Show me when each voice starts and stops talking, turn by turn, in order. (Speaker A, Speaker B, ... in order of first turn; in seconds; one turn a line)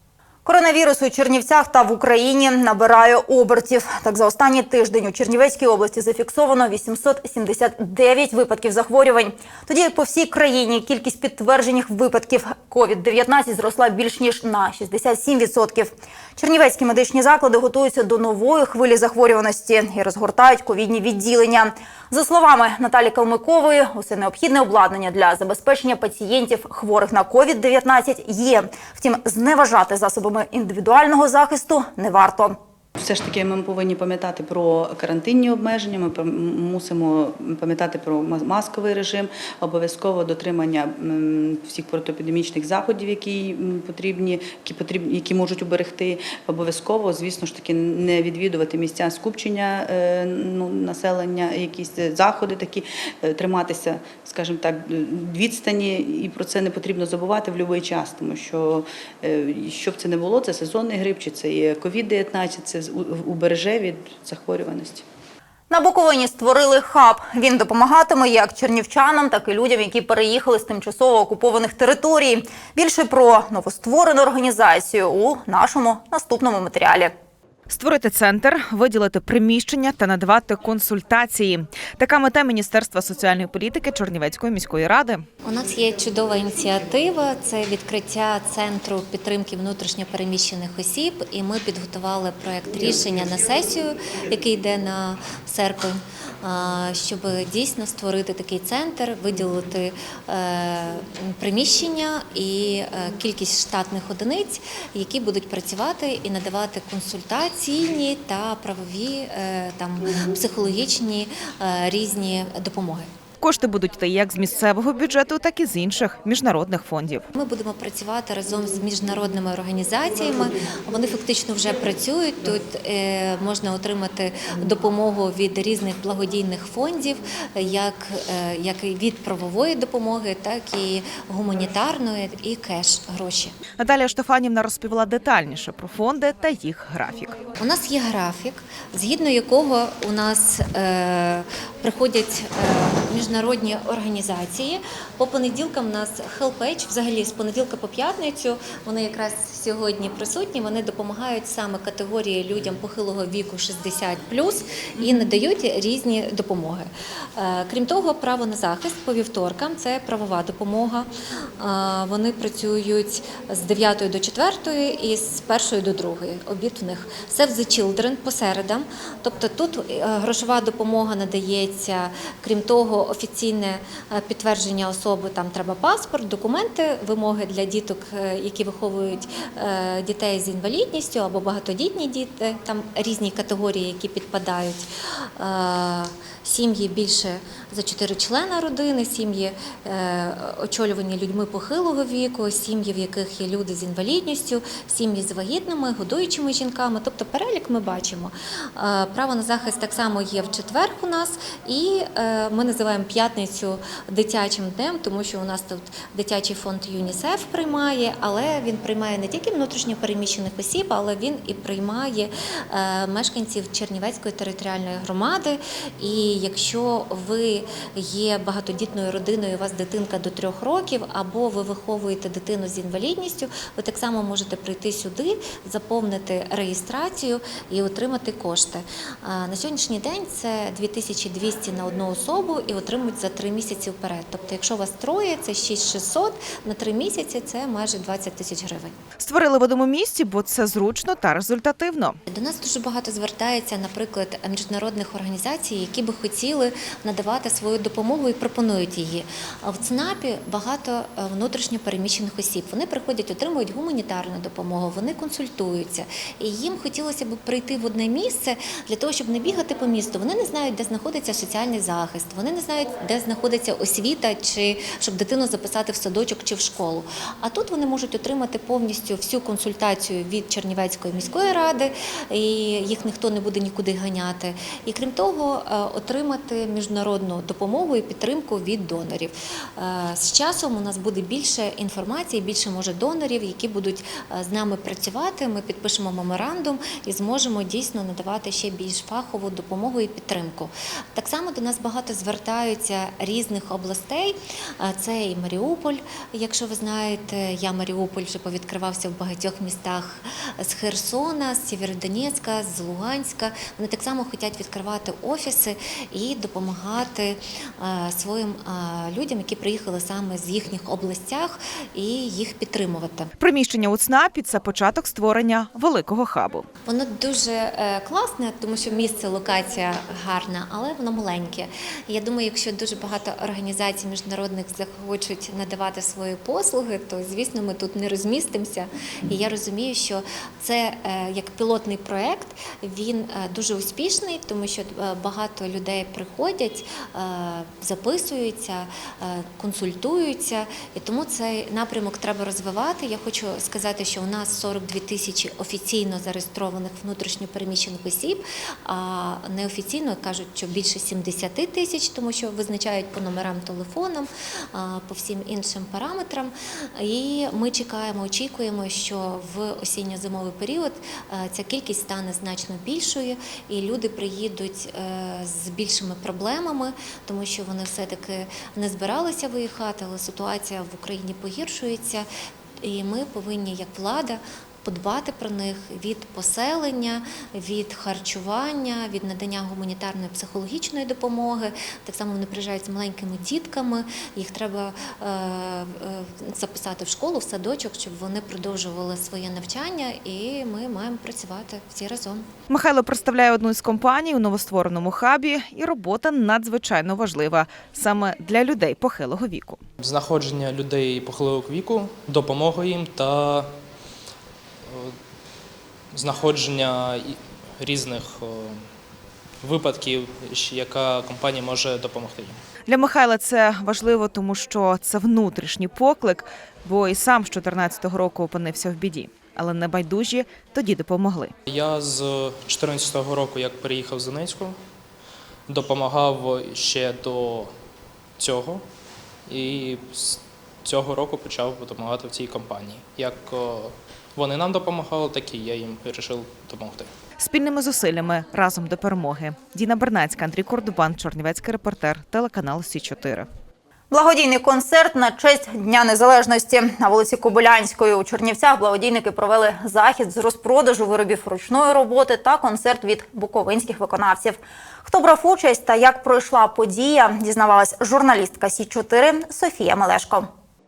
Speaker A: 0.5-32.6
Speaker B: 33.0-65.0
Speaker A: 65.7-77.1
Speaker C: 77.7-85.2
Speaker D: 85.4-113.1
Speaker C: 113.4-117.3
Speaker D: 117.3-133.6
Speaker C: 133.8-137.4
Speaker D: 137.6-238.9
Speaker C: 239.2-242.2
Speaker D: 242.3-313.3
Speaker C: 313.4-316.7
Speaker D: 316.9-372.3
Speaker D: 372.8-392.5
Speaker C: 392.7-399.8
Speaker E: 400.0-403.7
Speaker E: 404.9-405.2
Speaker E: 406.1-408.9
Speaker E: 409.6-412.6
Speaker C: 412.9-421.5
Speaker E: 421.7-424.8
Speaker E: 425.7-427.7
Speaker E: 428.4-428.8
Speaker E: 429.5-437.1
Speaker C: 437.4-443.5
Speaker A: 444.1-460.5